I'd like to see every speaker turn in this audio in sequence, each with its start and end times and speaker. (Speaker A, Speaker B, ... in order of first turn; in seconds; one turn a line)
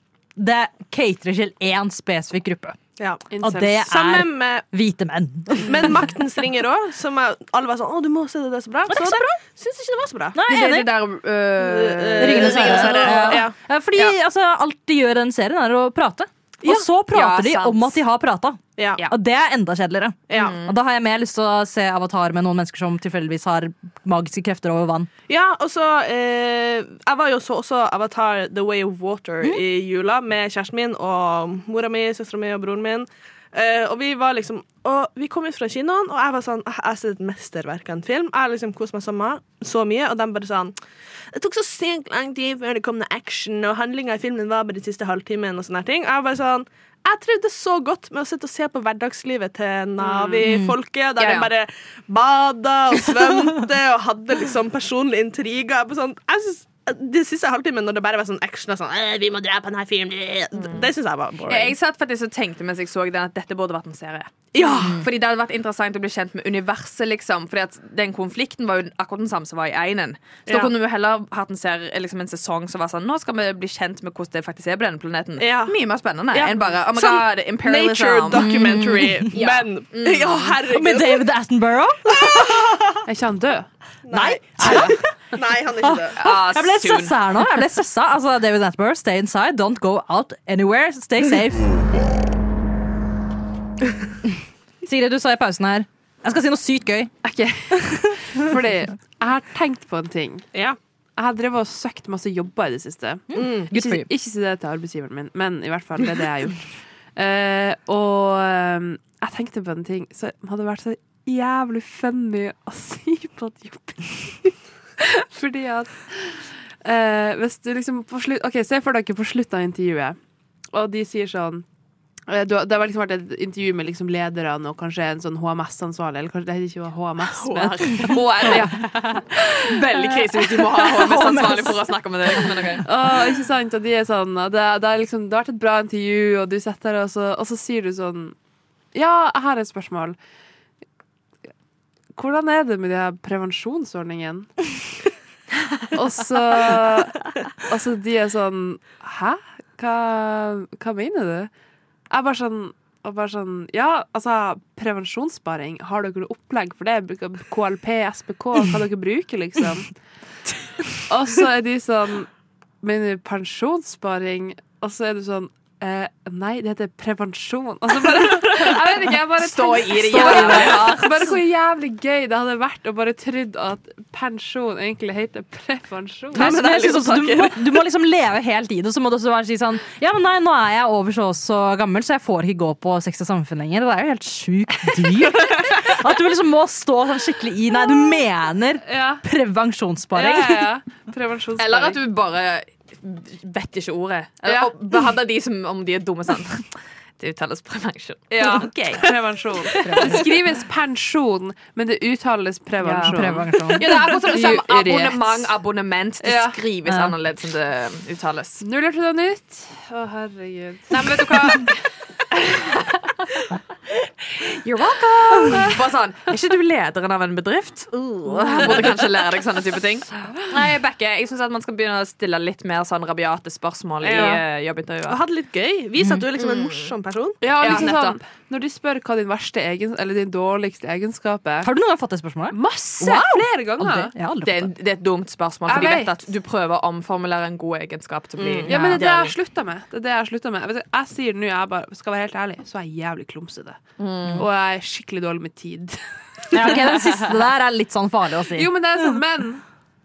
Speaker A: 0.4-2.8
Speaker B: 3.0-3.2
Speaker C: 3.3-3.8
Speaker A: 3.4-6.0
Speaker B: 3.9-4.7
Speaker B: 5.6-10.4
Speaker A: 8.9-9.4
Speaker A: 10.3-10.9
Speaker D: 10.5-14.1
Speaker B: 11.6-13.6
Speaker A: 12.2-25.1
Speaker D: 16.7-18.0
Speaker B: 18.8-19.0
Speaker B: 20.3-20.6
Speaker D: 20.3-20.8
Speaker B: 25.3-40.7
Speaker B: 41.3-61.7
Speaker A: 50.5-50.7
Speaker D: 51.2-51.5
Speaker D: 60.5-60.9
Speaker D: 61.5-78.7
Speaker B: 64.5-65.0
Speaker B: 70.5-70.7
Speaker B: 75.4-75.8
Speaker B: 76.3-81.3
Speaker A: 78.3-79.3
Speaker D: 79.3-80.5
Speaker A: 80.7-82.1
Speaker B: 82.1-83.0
Speaker C: 83.1-83.7
Speaker B: 84.0-86.2
Speaker A: 84.1-85.0
Speaker A: 85.8-91.7
Speaker D: 86.2-87.4
Speaker A: 94.8-97.1
Speaker C: 97.2-100.5
Speaker A: 98.0-98.5
Speaker C: 101.2-120.2
Speaker A: 103.3-104.1
Speaker B: 103.3-103.7
Speaker C: 120.7-121.6
Speaker C: 122.3-128.8
Speaker D: 127.2-132.8
Speaker A: 130.8-131.8
Speaker C: 132.8-138.3
Speaker C: 138.9-140.2
Speaker C: 142.1-144.7
Speaker C: 145.9-151.5
Speaker C: 152.1-159.9
Speaker C: 161.1-162.3
Speaker C: 162.8-176.5
Speaker D: 169.3-171.3
Speaker A: 170.1-171.1
Speaker B: 176.3-177.8
Speaker A: 176.3-190.7
Speaker C: 188.8-189.2
Speaker C: 190.1-192.0
Speaker D: 191.6-200.3
Speaker C: 194.4-194.7
Speaker C: 198.3-205.5
Speaker A: 199.8-200.2
Speaker D: 202.8-208.6
Speaker A: 203.0-203.9
Speaker C: 206.2-206.6
Speaker A: 206.9-207.1
Speaker C: 208.6-211.6
Speaker D: 210.9-211.7
Speaker D: 212.5-212.8
Speaker D: 214.3-225.2
Speaker C: 218.3-219.0
Speaker B: 224.0-224.4
Speaker B: 225.1-227.9
Speaker D: 226.3-226.9
Speaker C: 227.4-231.7
Speaker D: 227.6-228.2
Speaker A: 231.6-234.7
Speaker C: 232.5-234.1
Speaker D: 234.4-239.3
Speaker C: 235.7-236.1
Speaker B: 238.4-238.7
Speaker C: 238.7-243.8
Speaker A: 238.7-239.0
Speaker D: 244.0-244.4
Speaker C: 244.4-246.0
Speaker C: 246.5-247.2
Speaker A: 246.5-249.2
Speaker C: 248.5-249.6